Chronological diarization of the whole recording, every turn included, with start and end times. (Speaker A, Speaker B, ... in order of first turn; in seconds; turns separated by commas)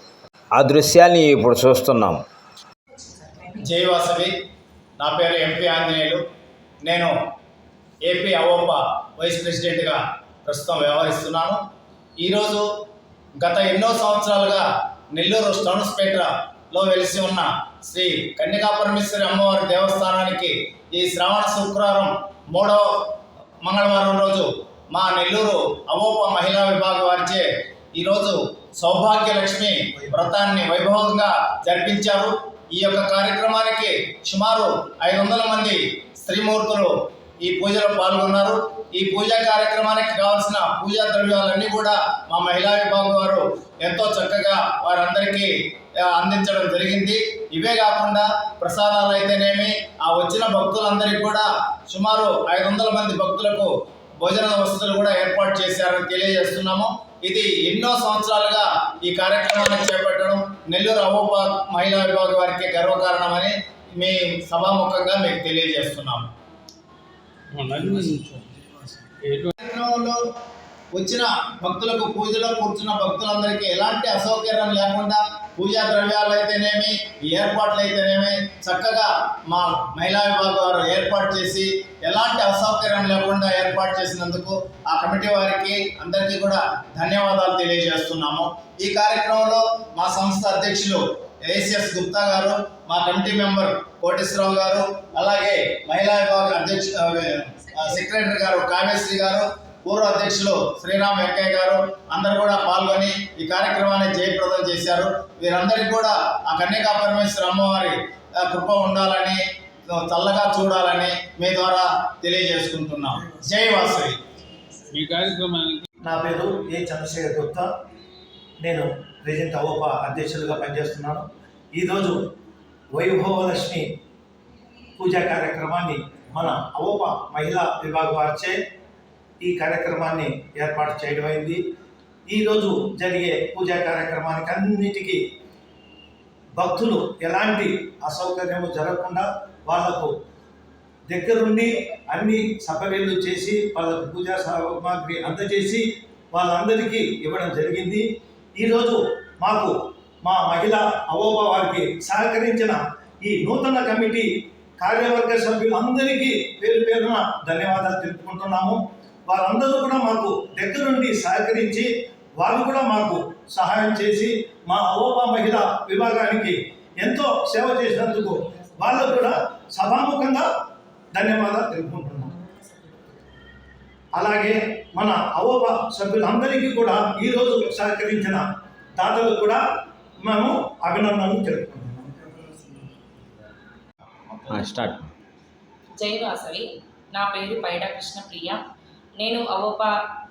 Speaker A: 0.5-2.2, Speaker B: 3.6-4.3, Speaker B: 5.0-6.2, Speaker B: 6.8-7.1, Speaker B: 8.1-11.6, Speaker B: 12.2-12.7, Speaker B: 13.4-23.0, Speaker B: 23.6-66.2, Speaker C: 67.5-68.4, Speaker C: 69.2-69.5, Speaker B: 69.6-70.2, Speaker B: 70.9-114.2, Speaker C: 114.9-115.9, Speaker D: 116.0-117.7, Speaker D: 118.6-122.3, Speaker D: 122.9-124.0, Speaker D: 125.0-128.6, Speaker D: 129.4-131.6, Speaker D: 132.3-135.2, Speaker D: 136.6-140.1, Speaker D: 141.1-148.0, Speaker D: 148.6-170.5, Speaker D: 171.1-172.3, Speaker A: 172.7-173.1, Speaker D: 174.2-178.4, Speaker D: 178.9-179.6, Speaker D: 180.2-181.9, Speaker A: 184.5-185.1, Speaker E: 186.0-188.6, Speaker E: 189.2-189.9